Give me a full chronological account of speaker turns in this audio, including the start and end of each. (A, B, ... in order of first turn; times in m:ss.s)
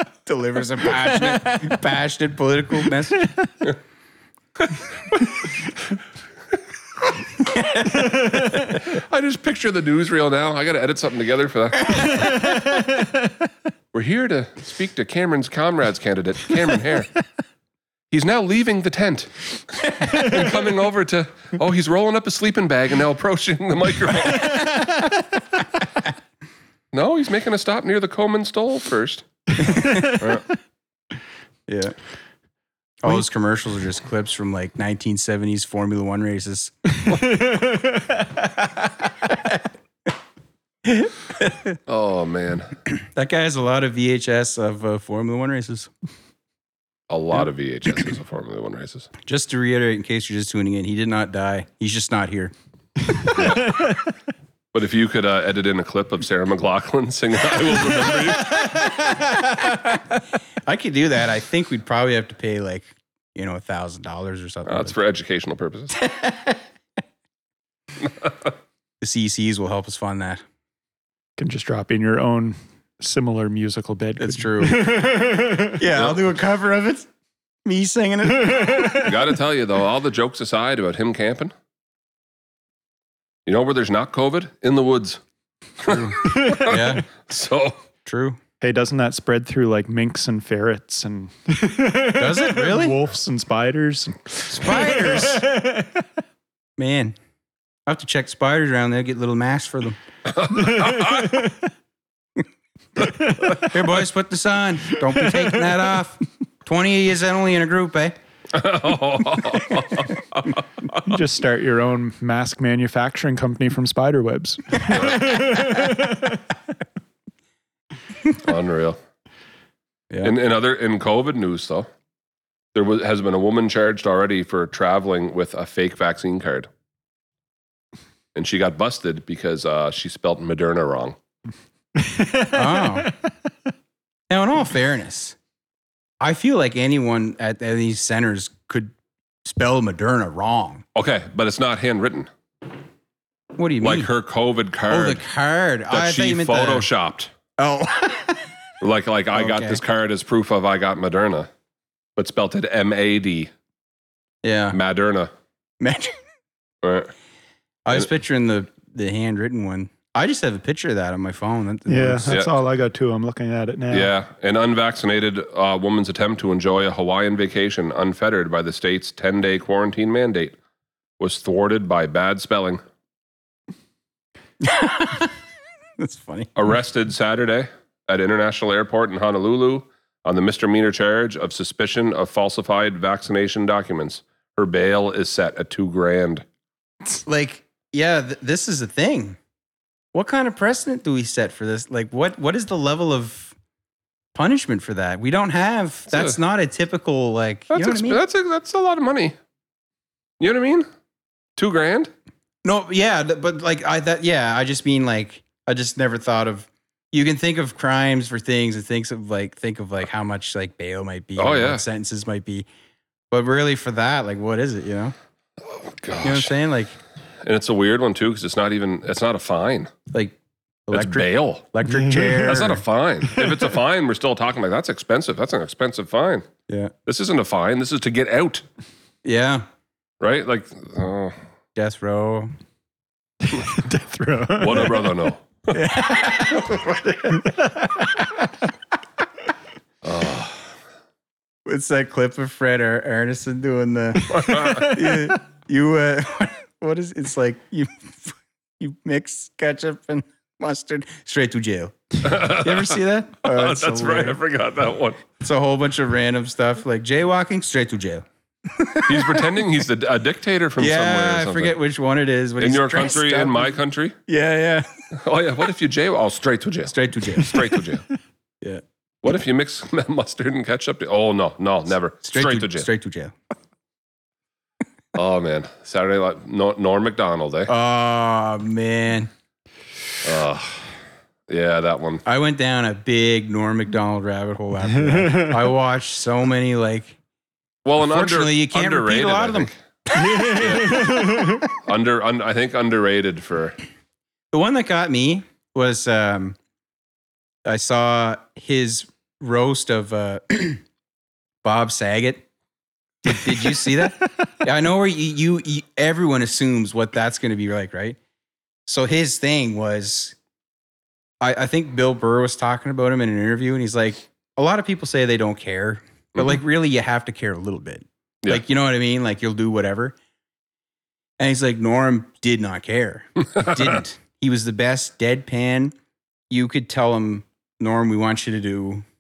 0:00.2-0:03.3 A
0:07.4-0:08.1 A
0:08.0-0:08.7 B
0:08.8-0:12.3 C
0:12.2-0:13.1 B
0:13.9-0:17.1 C
0:18.1-0:24.7 C
0:24.4-0:25.0 A
0:26.9-0:30.4 C
0:29.7-0:30.1 A
0:29.7-0:30.2 B
0:31.7-0:32.0 A
0:33.0-0:36.8 A
0:37.1-0:38.2 B
0:39.0-0:39.6 A
0:40.8-0:41.8 A
0:41.9-0:42.7 C
0:43.0-0:45.9 A
0:47.1-0:49.1 C
0:49.2-0:52.5 A
0:53.3-0:53.9 C
0:54.7-0:58.9 C
0:58.7-1:05.0 A
1:04.7-1:06.0 C
1:05.9-1:06.6 A
1:09.0-1:10.4 A
1:11.4-1:15.8 B
1:14.2-1:17.1 A
1:17.6-1:19.1 A
1:18.5-1:18.9 B
1:18.9-1:21.5 C
1:23.5-1:25.2 C
1:25.8-1:27.8 C
1:25.9-1:27.1 A
1:26.3-1:26.6 B
1:28.0-1:28.4 A
1:28.6-1:35.9 B
1:32.1-1:33.0 A
1:34.5-1:35.4 A
1:36.8-1:37.2 A
1:37.9-1:40.0 A
1:40.4-1:41.4 C
1:40.5-1:41.5 B
1:43.3-1:43.6 B
1:43.5-1:48.2 A
1:48.5-1:50.6 C
1:51.0-1:56.3 B
1:54.9-1:55.4 C
1:58.4-1:59.0 C
2:00.2-2:01.9 C
2:02.8-2:06.7 C
2:08.4-2:11.2 C
2:12.0-2:13.1 B
2:12.5-2:13.1 A
2:14.3-2:15.4 A
2:16.2-2:18.9 A
2:19.4-2:20.8 A
2:21.0-2:22.3 C
2:23.6-2:24.1 A
2:23.8-2:25.2 C
2:24.9-2:26.9 A
2:25.9-2:27.3 C
2:27.6-2:28.5 A
2:28.8-2:31.5 C
2:29.3-2:29.8 A
2:32.2-2:33.5 C
2:34.4-2:34.8 A
2:34.7-2:35.3 C
2:35.8-2:36.2 A
2:36.8-2:37.1 C
2:37.8-2:42.4 A
2:41.9-2:44.1 B
2:43.9-2:50.6 C
2:51.2-2:52.8 C
2:54.6-2:55.3 A
2:56.0-2:56.5 A
2:56.6-3:06.4 C
3:07.3-3:09.4 A
3:10.1-3:13.6 A
3:14.3-3:18.2 A
3:16.1-3:16.4 C
3:17.7-3:19.4 C
3:20.4-3:20.9 C
3:21.6-3:22.1 C
3:22.6-3:32.7 A
3:31.4-3:31.8 C
3:33.3-3:35.1 A
3:35.6-3:36.5 C
3:36.2-3:37.0 A
3:37.4-3:39.9 C
3:40.1-3:42.8 A
3:40.9-3:41.7 C
3:41.9-3:42.5 B
3:42.4-3:46.5 C
3:46.7-3:46.9 A
3:47.1-3:48.6 C
3:49.2-3:49.7 A
3:50.2-3:51.4 C
3:51.8-3:52.5 A
3:53.5-3:55.0 B
3:54.6-3:55.8 C
3:55.7-3:57.6 A
3:57.4-3:58.0 B
4:00.0-4:00.6 C
4:01.6-4:14.4 A
4:04.3-4:05.0 C
4:04.3-4:05.4 B
4:12.2-4:15.3 C
4:15.4-4:19.6 A
4:19.1-4:21.8 C
4:20.8-4:23.8 A
4:22.6-4:24.2 C
4:24.3-4:24.9 A
4:25.2-4:28.0 C
4:26.9-4:27.6 A
4:29.2-4:32.9 C
4:32.2-4:33.4 A
4:35.2-4:37.7 C
4:37.7-4:39.3 A
4:40.2-4:40.9 C
4:41.5-4:42.2 C
4:42.2-4:47.2 A
4:45.2-4:45.6 B
4:47.8-4:49.7 C
4:48.0-4:51.6 A
4:50.1-4:51.7 B
4:50.5-4:53.8 C
4:54.5-4:56.6 A
4:57.6-5:00.8 A
5:01.6-5:02.5 A
5:03.2-5:08.2 A
5:08.9-5:10.4 A
5:11.4-5:20.2 A
5:21.4-5:26.0 A
5:26.5-5:29.0 A